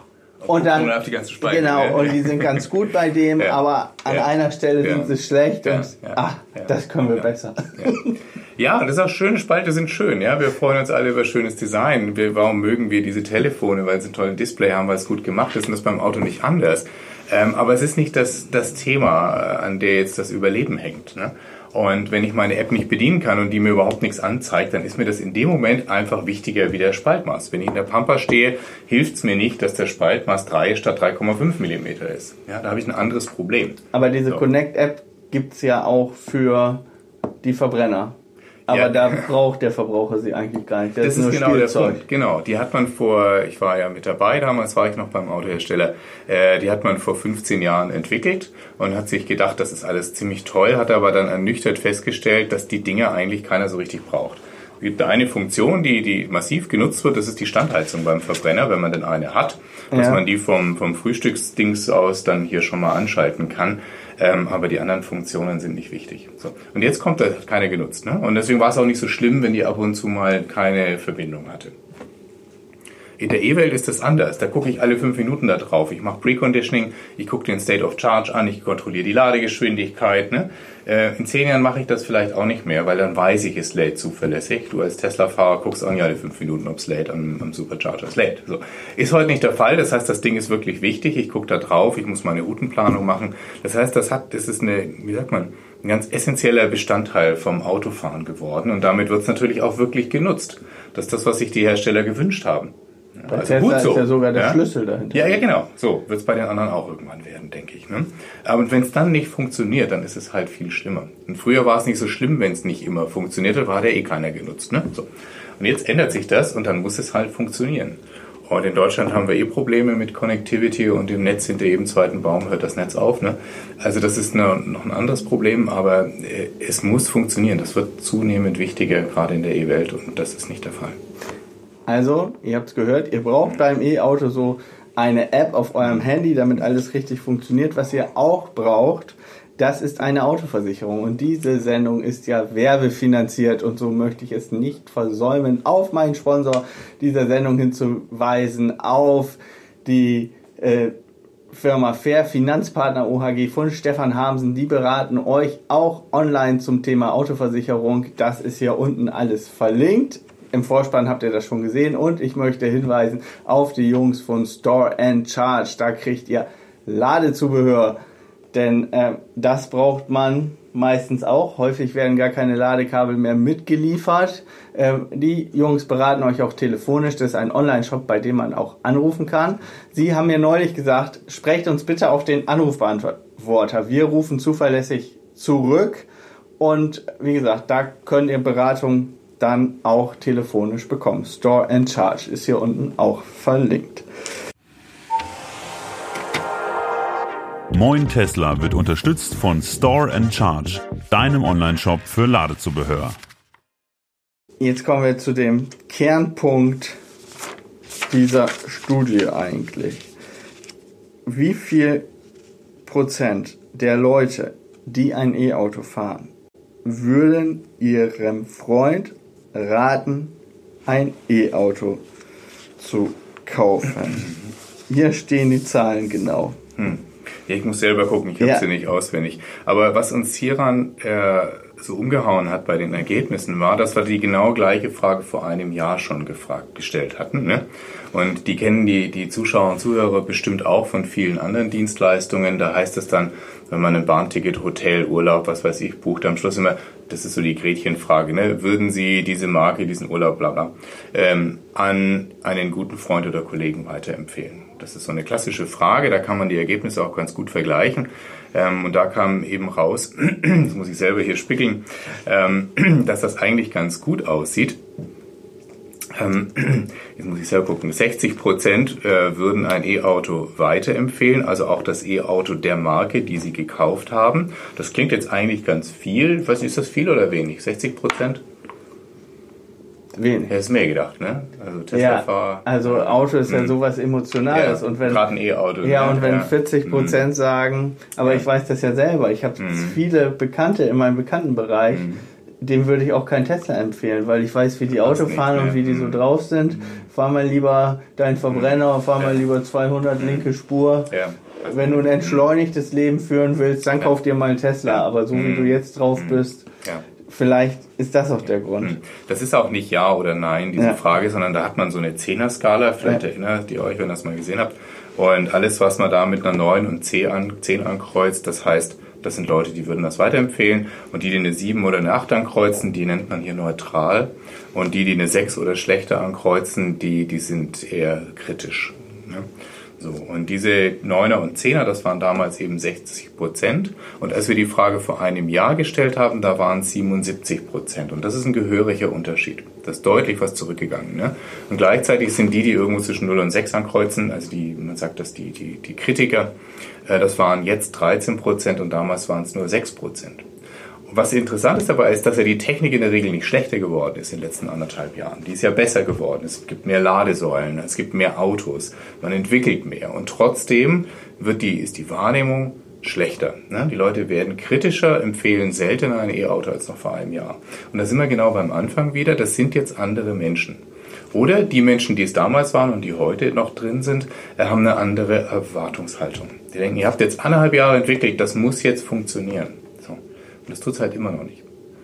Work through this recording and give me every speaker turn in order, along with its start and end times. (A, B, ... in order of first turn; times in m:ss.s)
0:00.4-0:02.6 A
0:00.5-0:08.1 B
0:03.4-0:04.3 A
0:04.8-0:06.7 A
0:08.6-0:34.4 A
0:33.9-0:36.8 B
0:37.4-0:38.2 B
0:38.7-0:39.2 A
0:38.7-0:42.0 B
0:41.0-1:11.7 A
0:59.9-1:00.2 B
1:13.2-1:44.6 A
1:43.3-1:45.4 B
1:45.1-2:11.0 A
2:11.9-2:30.9 B
2:31.5-2:48.0 B
2:48.5-3:06.1 B
3:06.6-3:14.0 B
3:17.7-3:23.2 C
3:24.6-3:27.0 B
3:28.1-3:30.1 B
3:31.2-3:32.0 B
3:32.8-3:36.3 B
3:36.8-3:40.3 B
3:40.8-3:42.0 B
3:42.8-3:44.3 B
3:44.2-3:44.5 A
3:44.9-3:46.6 B
3:46.8-4:24.8 A
3:48.4-3:48.6 B
4:26.1-4:38.4 A
4:40.1-4:40.5 B
4:40.5-4:43.7 A
4:41.9-4:45.2 B
4:44.5-4:47.2 A
4:45.8-4:52.1 B
4:49.6-4:50.0 A
4:51.9-4:52.2 A
4:52.6-5:06.6 B
4:54.9-4:57.0 A
4:58.5-4:59.4 A
5:00.2-5:00.4 A
5:01.1-5:02.4 A
5:04.8-5:07.0 A
5:07.2-5:09.0 B
5:08.8-5:46.5 A
5:47.0-5:50.4 A
5:51.1-6:10.8 A
6:11.3-6:21.6 A